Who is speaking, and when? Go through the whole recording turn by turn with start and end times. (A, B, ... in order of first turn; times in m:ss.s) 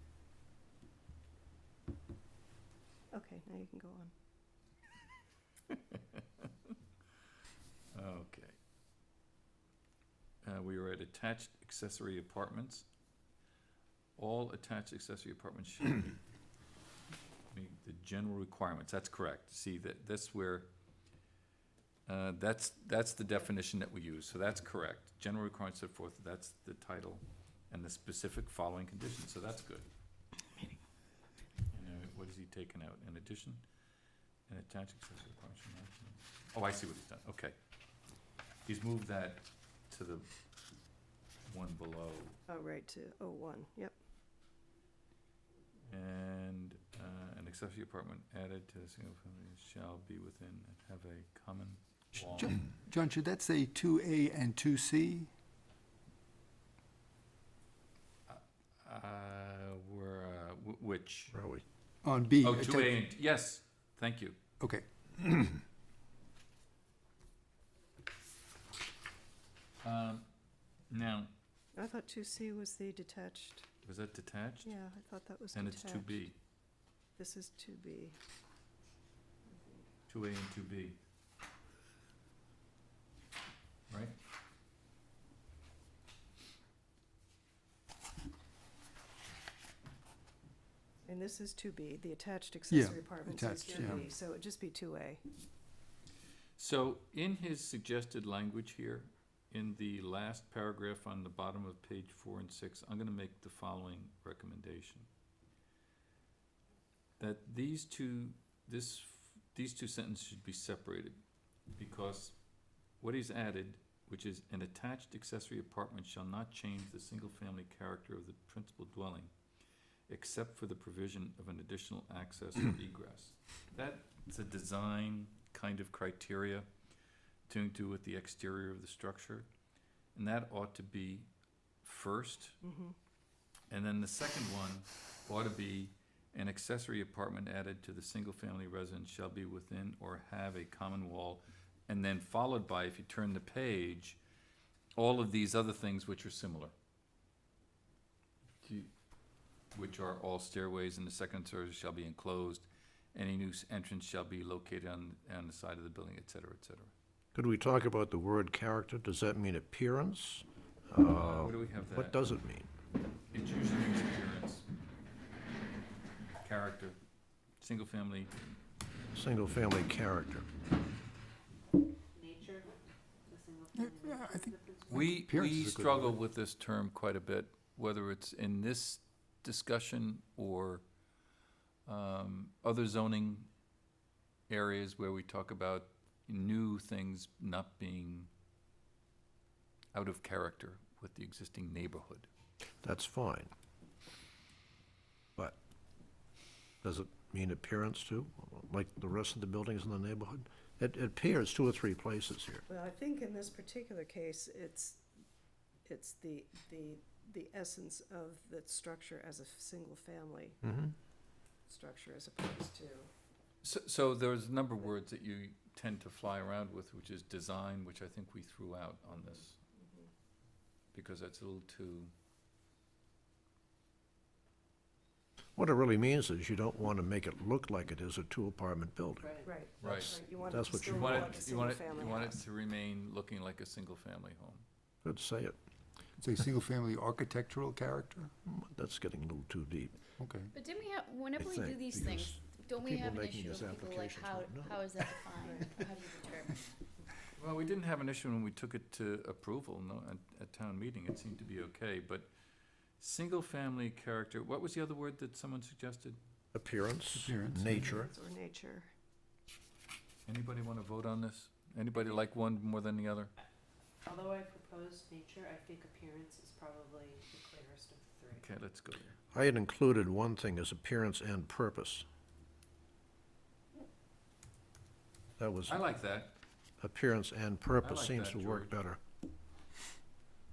0:03.1-0:04.1 A
0:05.7-0:06.5 B
0:07.9-0:08.6 B
0:10.4-0:12.8 B
0:14.2-0:16.2 B
0:17.5-0:20.7 B
0:22.1-0:29.9 B
0:31.7-0:33.6 B
0:34.5-0:37.5 B
0:38.6-0:40.3 B
0:41.5-0:42.4 B
0:42.5-0:44.0 A
0:45.9-0:52.6 B
0:52.1-0:55.3 C
0:58.3-1:01.3 B
1:01.3-1:01.6 D
1:02.0-1:03.0 C
1:02.4-1:04.4 B
1:04.6-1:05.6 C
1:09.8-1:10.2 B
1:10.9-1:11.3 B
1:11.7-1:13.7 A
1:13.8-1:14.7 B
1:14.6-1:16.3 A
1:15.5-1:16.4 B
1:17.2-1:18.2 A
1:19.5-1:19.8 A
1:20.1-1:21.0 B
1:23.9-1:24.2 B
1:31.0-1:35.2 A
1:32.7-1:34.0 C
1:36.6-1:45.1 B
1:47.2-1:51.2 B
1:51.8-1:52.3 B
1:53.0-1:59.3 B
2:00.1-2:06.7 B
2:07.5-2:09.5 B
2:10.1-2:11.3 B
2:11.8-2:12.6 B
2:12.6-2:13.0 A
2:13.7-2:24.2 B
2:25.0-2:26.7 B
2:28.6-2:28.9 B
2:29.7-2:36.9 B
2:37.3-2:42.7 D
2:41.1-2:42.2 B
2:43.3-2:44.6 B
2:46.4-2:47.0 B
2:47.6-2:48.3 B
2:49.1-2:50.5 D
2:52.1-2:52.7 E
2:53.2-2:55.2 E
2:53.7-2:56.2 C
2:54.9-3:00.8 B
3:01.8-3:03.5 B
3:04.5-3:08.3 B
3:09.9-3:12.3 B
3:12.8-3:13.5 D
3:16.8-3:22.6 D
3:22.7-3:25.0 A
3:25.8-3:30.6 A
3:30.6-3:30.9 D
3:31.7-3:33.1 A
3:33.6-3:39.6 B
3:39.8-3:40.1 A
3:40.9-3:42.1 B
3:45.6-3:49.3 D
3:49.2-3:49.6 E
3:49.4-3:52.4 A
3:49.8-3:50.2 B
3:49.8-3:51.4 D
3:50.8-3:54.6 B
3:55.0-3:55.6 D
3:56.2-3:58.3 C
3:58.4-3:59.9 D
4:00.2-4:00.5 C
4:00.5-4:06.7 F
4:01.4-4:05.0 D
4:05.4-4:05.7 A
4:07.4-4:12.3 B
4:13.0-4:16.2 B
4:16.5-4:18.1 D
4:17.1-4:17.9 C
4:17.8-4:18.9 A
4:20.2-4:23.3 B
4:24.0-4:28.5 E
4:28.3-4:29.2 B
4:29.3-4:32.0 D
4:35.4-4:35.8 D
4:35.6-4:36.4 B
4:36.8-4:39.0 D
4:37.8-4:38.8 B